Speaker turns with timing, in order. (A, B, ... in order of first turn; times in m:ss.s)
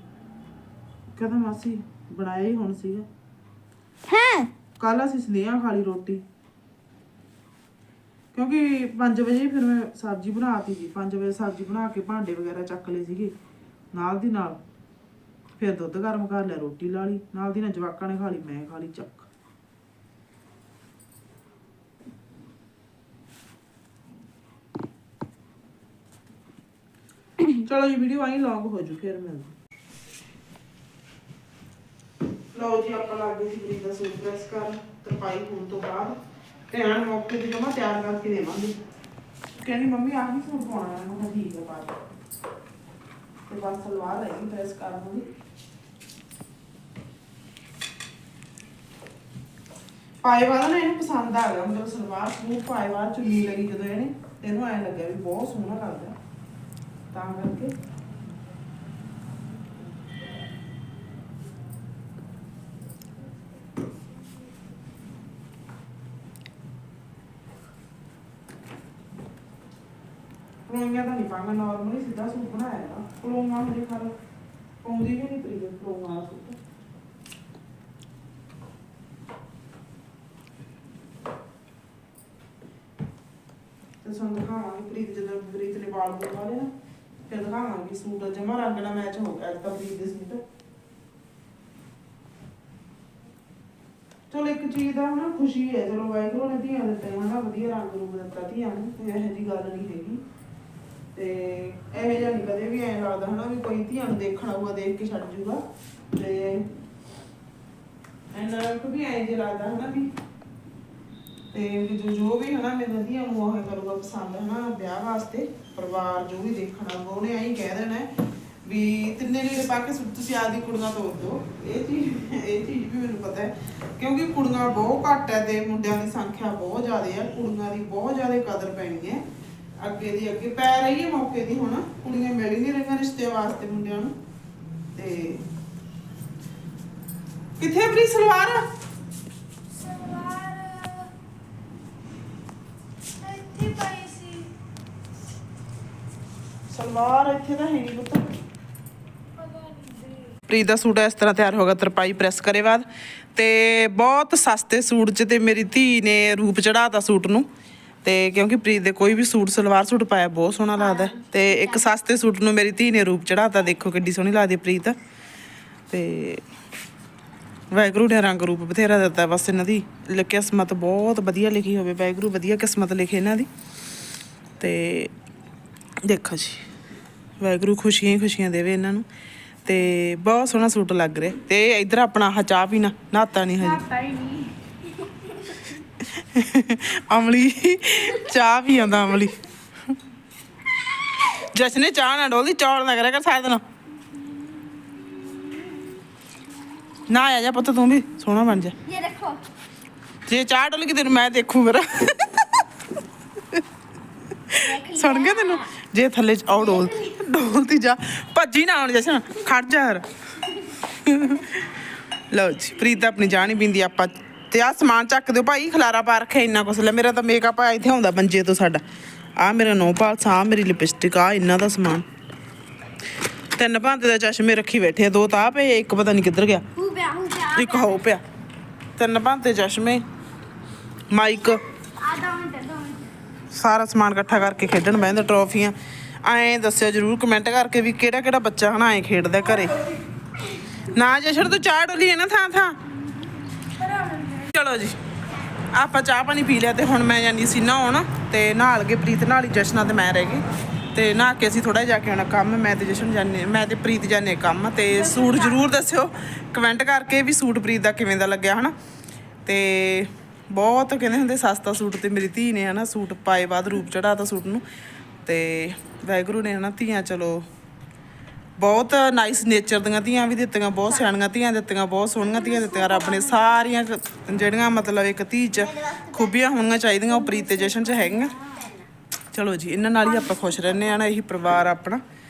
0:01.1-0:03.1 A
0:04.1-0:04.5 B
0:04.8-0:06.2 A
0:08.3-0:13.3 A
0:13.9-0:14.6 A
0:15.6-0:19.3 A
0:27.6-0:29.5 A
0:32.5-0:36.2 A
0:36.7-0:38.8 A
0:39.6-0:42.0 A
0:43.5-0:45.3 A
0:50.2-0:56.2 A
0:57.1-0:57.7 A
1:10.7-1:14.2 A
1:14.8-1:16.6 A
1:24.0-1:26.7 A
1:27.3-1:30.4 A
1:34.3-1:40.2 A
1:41.1-1:46.7 A
1:48.3-1:50.1 A
1:51.5-1:58.1 A
1:58.6-2:09.2 A
2:09.8-2:14.2 A
2:15.0-2:15.5 A
2:17.6-2:18.6 A
2:19.7-2:21.1 C
2:23.2-2:24.5 C
2:26.7-2:28.3 A
2:29.4-2:30.3 C
2:30.5-2:37.5 A
2:38.0-2:45.0 A
2:40.8-2:41.8 B
2:45.9-2:46.4 A
2:47.7-2:53.5 A
2:54.6-2:55.1 A
2:56.0-2:56.6 A
2:57.4-2:59.1 A
2:59.6-3:03.8 A
3:03.6-3:04.6 C
3:06.2-3:09.4 A
3:11.4-3:13.6 A
3:14.9-3:15.6 B
3:17.1-3:18.8 A
3:18.8-3:19.4 B
3:20.3-3:22.6 A
3:24.5-3:30.1 A
3:24.6-3:25.7 B
3:26.6-3:27.0 B
3:30.9-3:31.7 A
3:32.3-3:38.8 A
3:39.4-3:42.1 A
3:43.6-3:46.7 A
3:46.8-3:48.0 B
3:47.5-3:48.2 A
3:49.0-3:50.0 A
3:51.1-3:51.6 A
3:52.0-3:53.1 B
3:53.5-3:59.8 A
4:00.8-4:02.8 A
4:03.8-4:04.6 C
4:04.5-4:05.0 A
4:05.7-4:18.7 A
4:15.0-4:15.7 C
4:19.5-4:24.6 A
4:25.3-4:27.4 A
4:28.6-4:38.4 A
4:32.7-4:33.0 B
4:35.6-4:36.4 B
4:37.2-4:38.9 B
4:39.3-4:42.0 A
4:40.0-4:40.9 C